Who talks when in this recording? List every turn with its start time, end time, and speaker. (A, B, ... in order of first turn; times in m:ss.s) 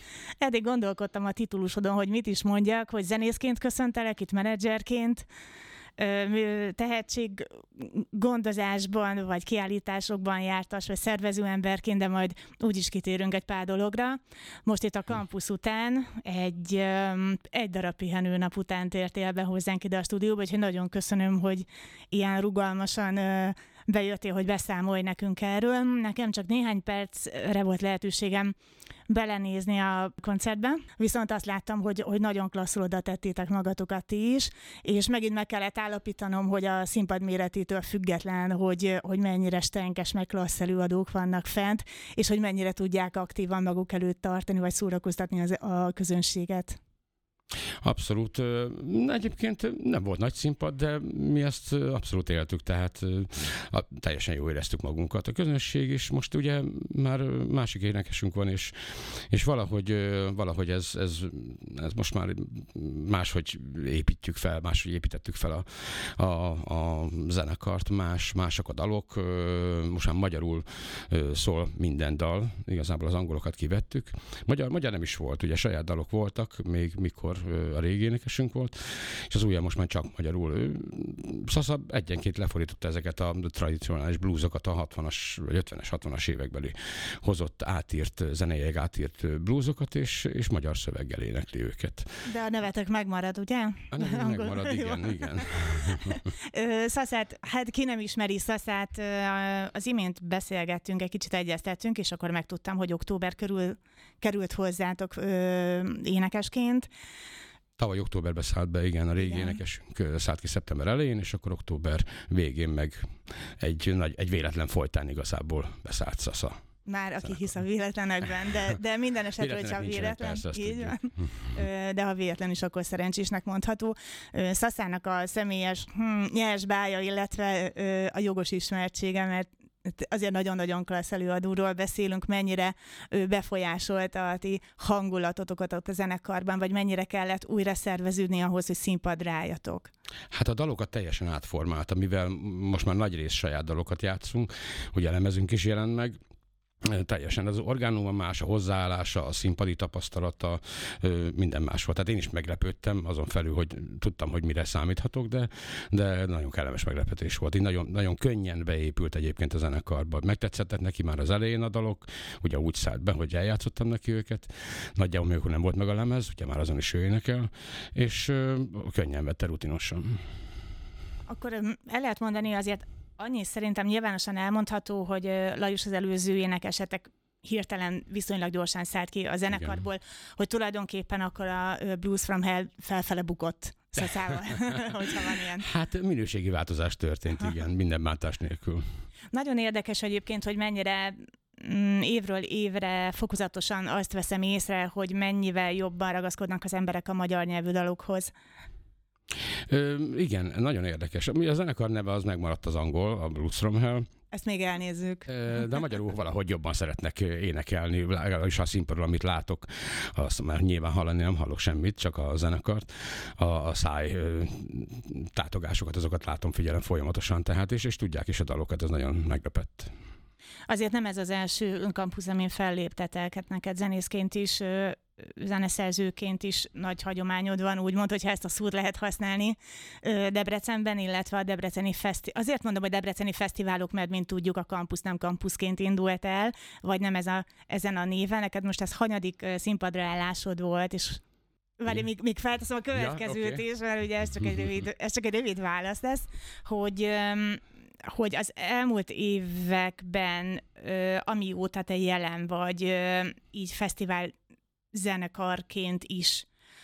0:00.4-0:05.3 A
0:06.0-0:28.5 A
0:29.1-0:46.8 A
0:47.8-1:32.1 B
1:32.2-1:46.9 A
1:33.9-1:36.2 B
1:47.8-1:56.6 B
1:49.2-1:49.6 A
1:56.9-2:19.9 A
1:59.4-2:01.5 B
2:20.3-2:26.2 B
2:26.8-2:50.2 B
2:51.3-3:05.7 A
3:05.6-3:08.8 B
3:09.3-3:18.3 A
3:19.7-3:24.0 B
3:24.3-3:25.3 A
3:25.3-3:39.9 B
3:40.7-4:01.2 A
4:01.8-4:14.3 A
4:02.9-4:03.6 B
4:14.9-4:16.5 A